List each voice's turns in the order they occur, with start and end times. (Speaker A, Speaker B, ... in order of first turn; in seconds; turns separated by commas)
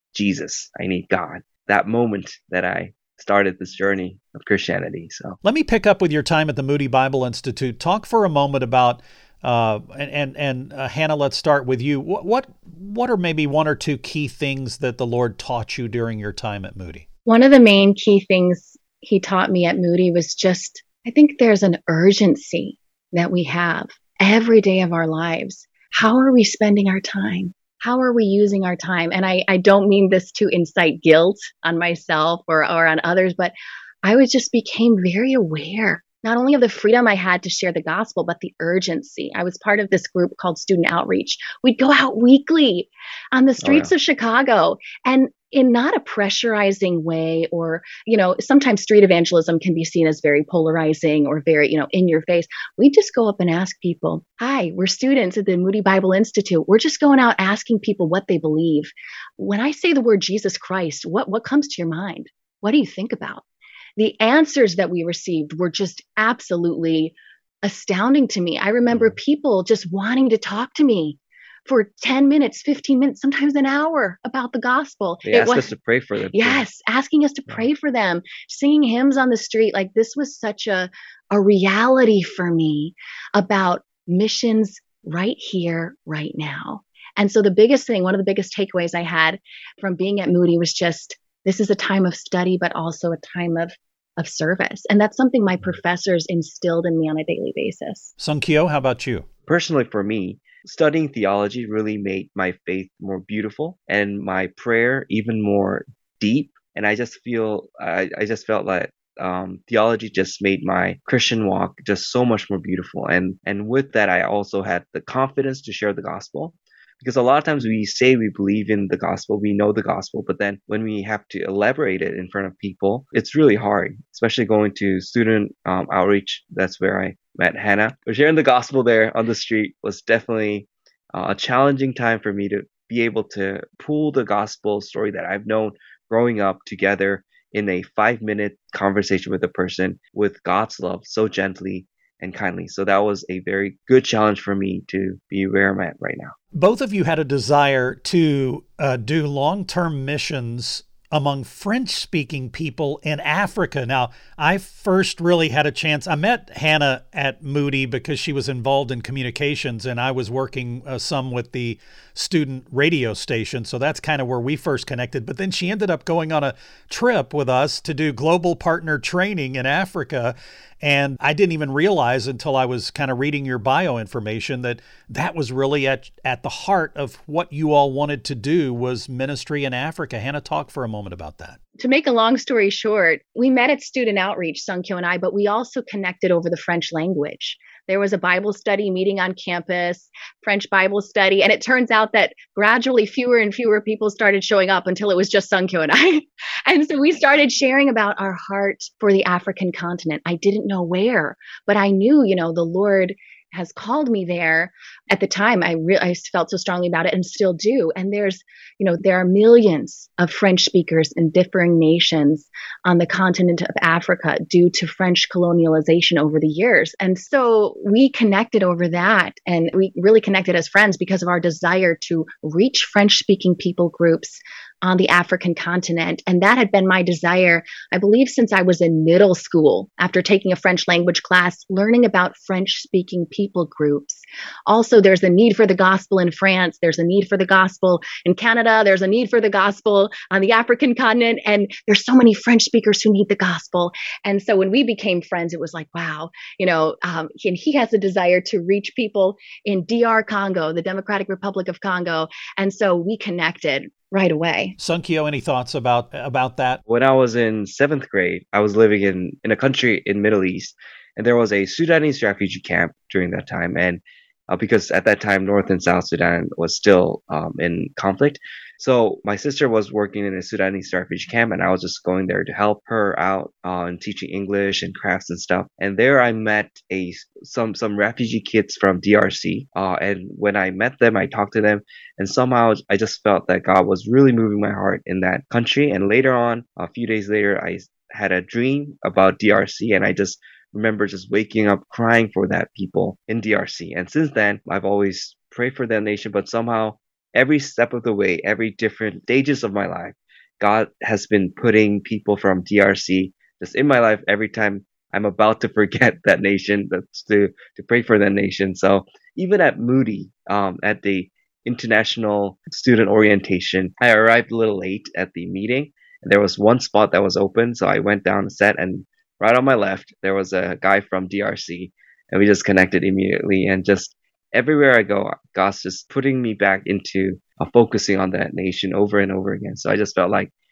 Speaker A: 0.1-5.4, Speaker B: 5.4-17.1, Speaker C: 17.3-63.4, Speaker A: 43.6-43.9, Speaker C: 64.0-75.7, Speaker A: 75.2-76.7, Speaker C: 76.3-98.1, Speaker B: 98.2-99.3, Speaker A: 99.5-146.3, Speaker B: 146.5-181.6, Speaker C: 181.8-254.8, Speaker B: 254.8-256.8, Speaker A: 256.9-330.5